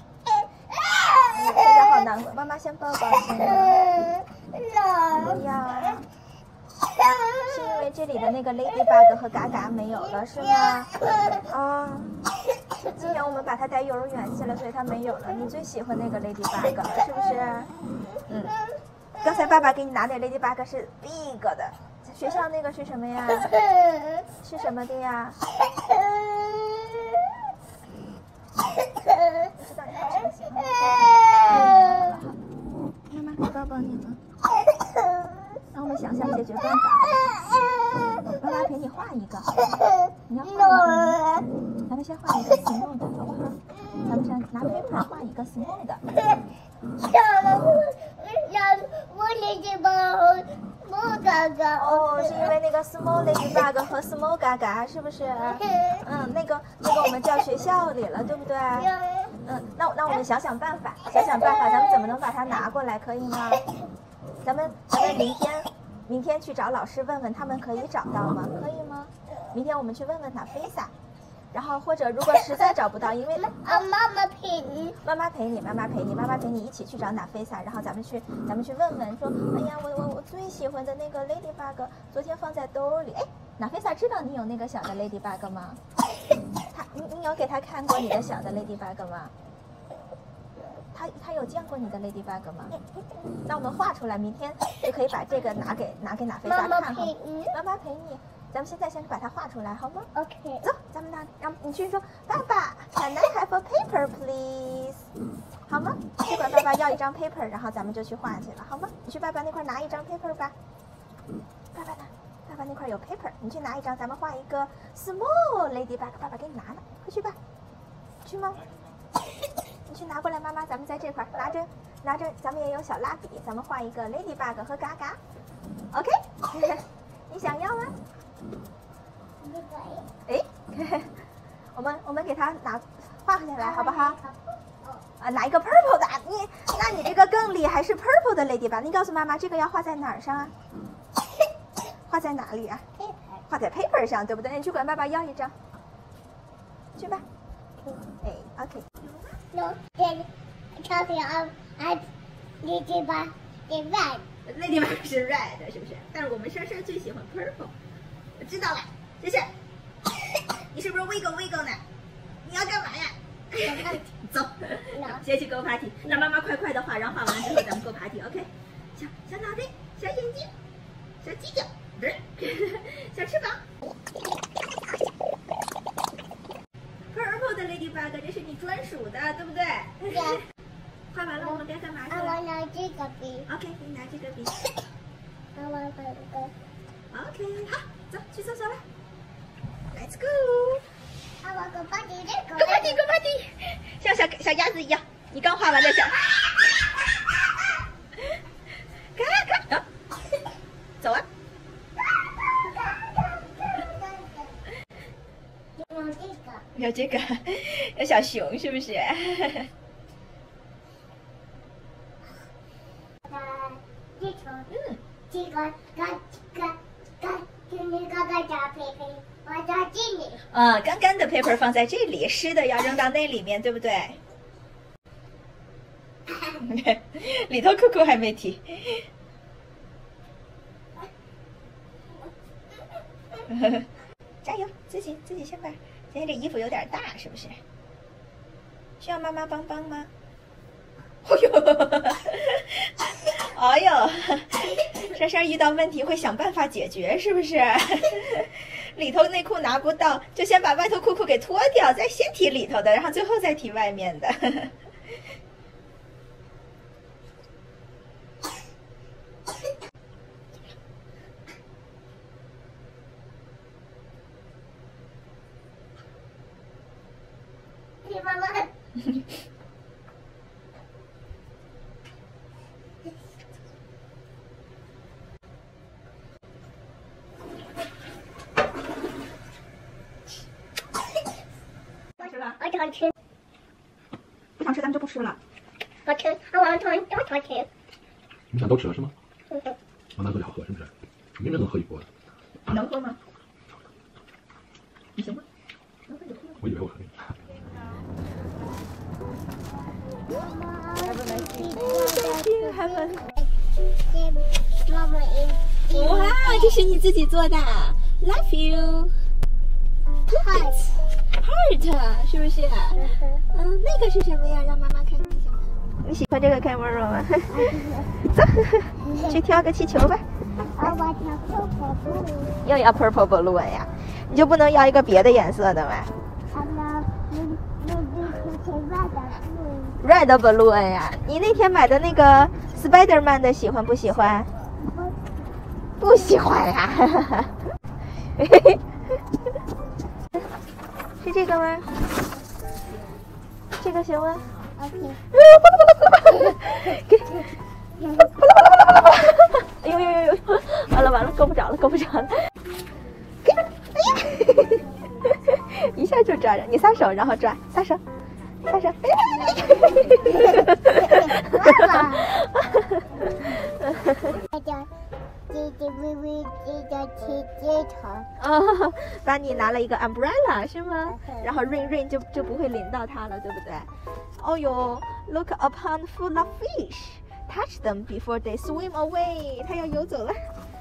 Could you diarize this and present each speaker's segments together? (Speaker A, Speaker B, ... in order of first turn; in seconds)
Speaker A: 0.7-1.3, 3.4-5.4, 7.0-7.4, 10.4-11.4, 26.0-26.9, 29.1-29.4, 30.7-32.1, 35.0-35.3, 37.1-38.3, 40.4-41.5, 47.0-52.5, 55.6-56.0, 58.8-59.3, 73.3-75.0, 96.4-97.5, 100.1-100.7, 129.4-130.1, 133.6-135.0, 143.0-143.4, 149.5-152.1, 152.6-154.2, 163.6-164.1, 164.9-165.2, 180.1-180.4, 181.4-183.5, 185.5-186.5, 191.4-193.0, 202.5-204.6, 205.8-206.6, 213.3-214.7, 215.3-220.4, 268.0-268.7, 282.6-283.1, 286.1-287.7, 300.3-306.9, 310.3-310.9, 312.9-313.4, 317.5-318.1, 319.0-319.4, 320.7-322.6, 326.5-330.0, 334.7-335.3, 344.8-345.2, 359.6-362.3, 364.4-364.9, 365.5-368.3, 371.1-371.5
Speaker B: 1.3-3.8, 5.2-6.1, 7.4-10.9, 11.4-12.2, 12.8-17.7, 18.3-18.6, 19.2-23.6, 24.4-25.4, 29.5-32.4, 33.1-34.2, 35.7-37.1, 38.4-39.6, 40.3-41.2, 41.8-46.0, 51.8-58.9, 59.4-63.7, 64.4-70.9, 71.5-73.8, 75.0-85.8, 86.7-89.3, 90.9-92.8, 93.5-100.1, 100.6-105.1, 105.7-110.5, 111.7-117.4, 118.2-118.6, 119.8-125.2, 125.9-127.9, 130.3-131.1, 131.7-134.2, 135.2-140.5, 142.1-142.8, 143.5-145.5, 146.9-147.2, 148.2-149.3, 154.4-157.7, 158.4-159.5, 160.7-161.8, 162.4-170.5, 171.2-173.6, 177.1-180.3, 181.1-182.4, 183.5-184.6, 187.1-188.8, 189.9-190.8, 192.6-196.6, 199.2-199.8, 201.0-201.3, 206.7-209.7, 214.7-215.0, 220.4-224.2, 226.5-229.1, 233.5-233.9, 234.4-237.6, 239.0-240.1, 241.2-254.7, 282.2-282.6, 284.6-285.4, 292.7-293.2, 295.1-295.4, 296.1-296.7, 301.0-303.2, 305.9-309.3, 310.3-317.7, 318.2-320.2, 322.6-326.1, 330.0-334.5, 336.0-337.5, 338.4-338.8, 341.2-342.0, 343.8-344.7, 345.3-347.4, 348.0-352.3, 353.4-358.0, 358.6-364.3, 368.4-380.5
Speaker C: 288.5-289.1, 290.1-292.1, 296.6-297.2